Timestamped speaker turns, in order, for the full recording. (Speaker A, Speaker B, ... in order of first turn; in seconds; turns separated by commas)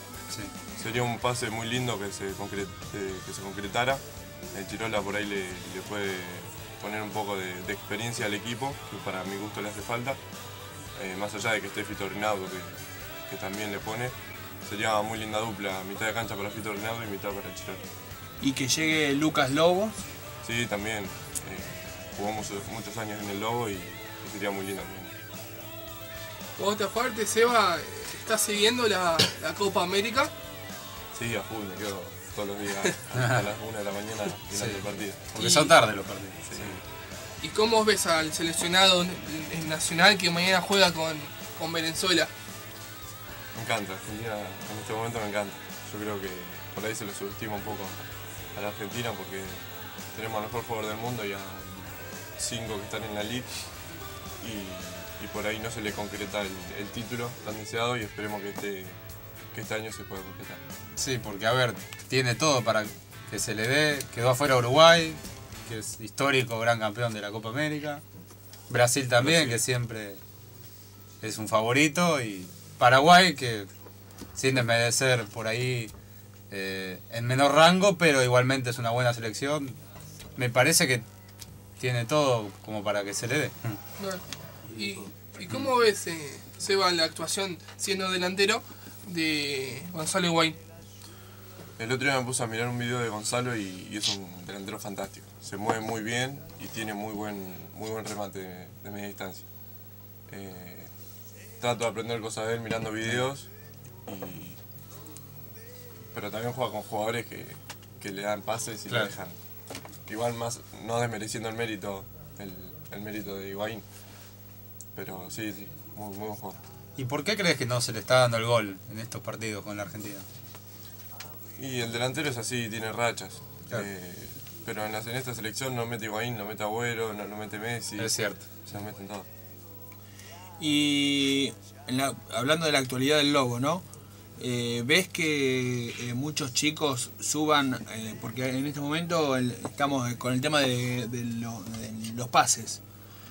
Speaker A: 0.8-10.2, Speaker A: 10.9-17.8, Speaker B: 18.4-20.0, Speaker A: 20.4-25.1, Speaker C: 26.6-30.3, Speaker A: 31.1-35.3, Speaker D: 34.5-36.7, Speaker C: 35.3-35.7, Speaker A: 36.5-36.8, Speaker C: 37.4-42.3, Speaker A: 43.5-53.5, Speaker A: 54.4-59.0, Speaker A: 59.5-60.6, Speaker D: 61.0-68.0, Speaker D: 68.7-70.2, Speaker A: 69.2-69.6, Speaker D: 71.2-73.7, Speaker D: 74.3-75.9, Speaker D: 76.5-79.8, Speaker D: 80.3-81.0, Speaker D: 81.8-83.8, Speaker C: 84.0-90.6, Speaker A: 91.8-99.5, Speaker A: 100.3-100.9, Speaker A: 101.6-103.5, Speaker A: 104.1-104.6, Speaker A: 106.1-109.3, Speaker A: 110.0-113.8, Speaker A: 114.9-116.6, Speaker D: 117.0-120.2, Speaker A: 121.6-129.3, Speaker D: 128.0-128.4, Speaker B: 130.6-133.8, Speaker B: 134.4-142.8